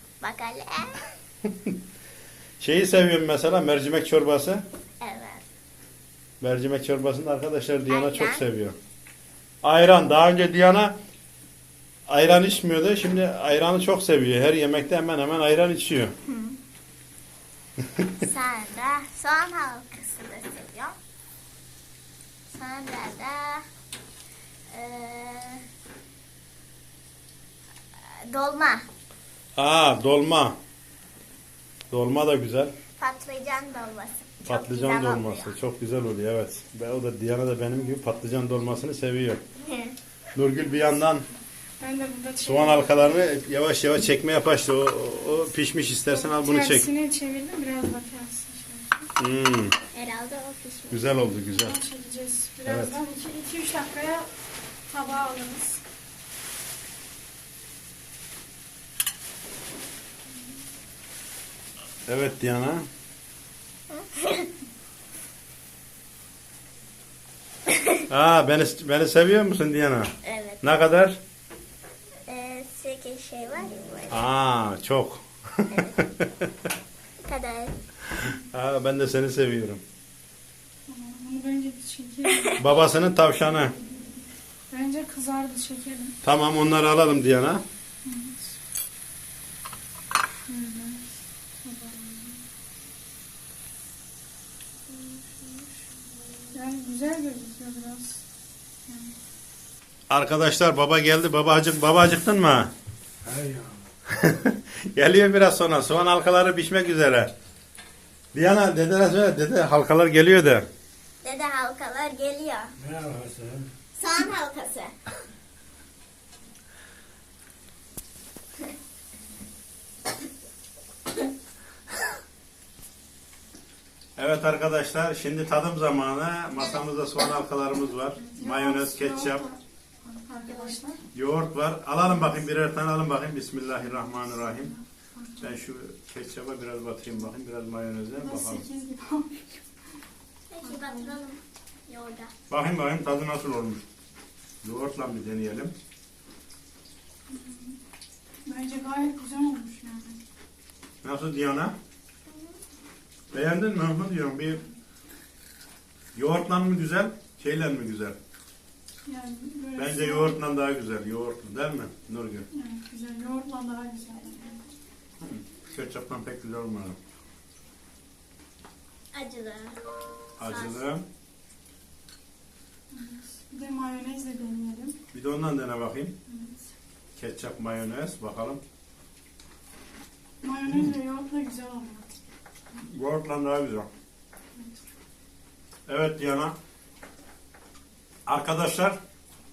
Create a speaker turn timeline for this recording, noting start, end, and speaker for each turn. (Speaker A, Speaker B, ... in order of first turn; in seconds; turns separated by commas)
Speaker A: 0.2-1.1, Speaker B: 1.5-1.7, Speaker B: 2.6-4.6, Speaker A: 5.0-5.4, Speaker B: 6.4-8.8, Speaker A: 7.9-8.4, Speaker B: 9.6-10.9, Speaker B: 12.1-16.1, Speaker A: 16.3-16.6, Speaker A: 18.2-20.9, Speaker A: 22.5-23.6, Speaker A: 24.7-25.6, Speaker A: 28.0-28.8, Speaker B: 29.6-30.6, Speaker B: 31.9-32.7, Speaker A: 33.0-35.5, Speaker B: 34.4-39.4, Speaker A: 39.6-40.0, Speaker B: 40.3-41.3, Speaker C: 41.8-43.3, Speaker B: 42.4-46.9, Speaker C: 46.1-49.1, Speaker B: 49.2-49.8, Speaker A: 49.9-51.1, Speaker B: 50.9-51.8, Speaker C: 51.4-54.3, Speaker B: 52.6-53.0, Speaker C: 54.9-55.8, Speaker B: 62.1-62.9, Speaker A: 63.9-64.5, Speaker A: 67.7-68.0, Speaker B: 68.1-71.2, Speaker A: 70.2-70.6, Speaker A: 72.3-74.2, Speaker B: 74.1-76.5, Speaker A: 75.7-76.0, Speaker A: 77.2-77.7, Speaker B: 78.1-79.8, Speaker C: 80.9-82.8, Speaker A: 82.3-82.6, Speaker B: 82.6-83.7, Speaker C: 84.7-86.2, Speaker B: 86.2-87.6, Speaker C: 88.0-88.5, Speaker C: 90.5-92.4, Speaker A: 94.9-95.8, Speaker C: 96.5-98.2, Speaker C: 98.9-99.1, Speaker B: 100.1-102.7, Speaker B: 103.2-107.3, Speaker B: 108.3-110.7, Speaker A: 111.2-112.7, Speaker B: 112.8-113.7, Speaker A: 114.0-114.9, Speaker B: 124.2-129.5, Speaker C: 128.3-131.0, Speaker A: 130.5-130.8, Speaker B: 131.1-134.7, Speaker C: 132.1-132.4, Speaker C: 133.8-135.5, Speaker B: 135.4-138.7, Speaker C: 138.2-139.6, Speaker A: 140.5-142.3, Speaker C: 140.6-141.2, Speaker B: 142.5-143.8, Speaker B: 144.6-145.7, Speaker C: 147.3-147.8, Speaker C: 148.4-150.2, Speaker B: 151.0-151.7, Speaker A: 152.3-152.5, Speaker B: 153.3-154.6, Speaker B: 156.1-158.2, Speaker C: 159.0-160.4, Speaker B: 159.8-162.5, Speaker C: 162.5-164.7, Speaker B: 165.2-167.0, Speaker A: 169.1-169.8, Speaker A: 170.4-170.8, Speaker B: 170.4-171.1, Speaker C: 172.9-175.0, Speaker B: 175.1-176.2, Speaker C: 176.3-176.7, Speaker B: 177.2-178.6, Speaker C: 180.4-182.2, Speaker B: 182.8-183.9, Speaker C: 184.5-184.8, Speaker B: 185.9-186.6, Speaker B: 188.2-189.0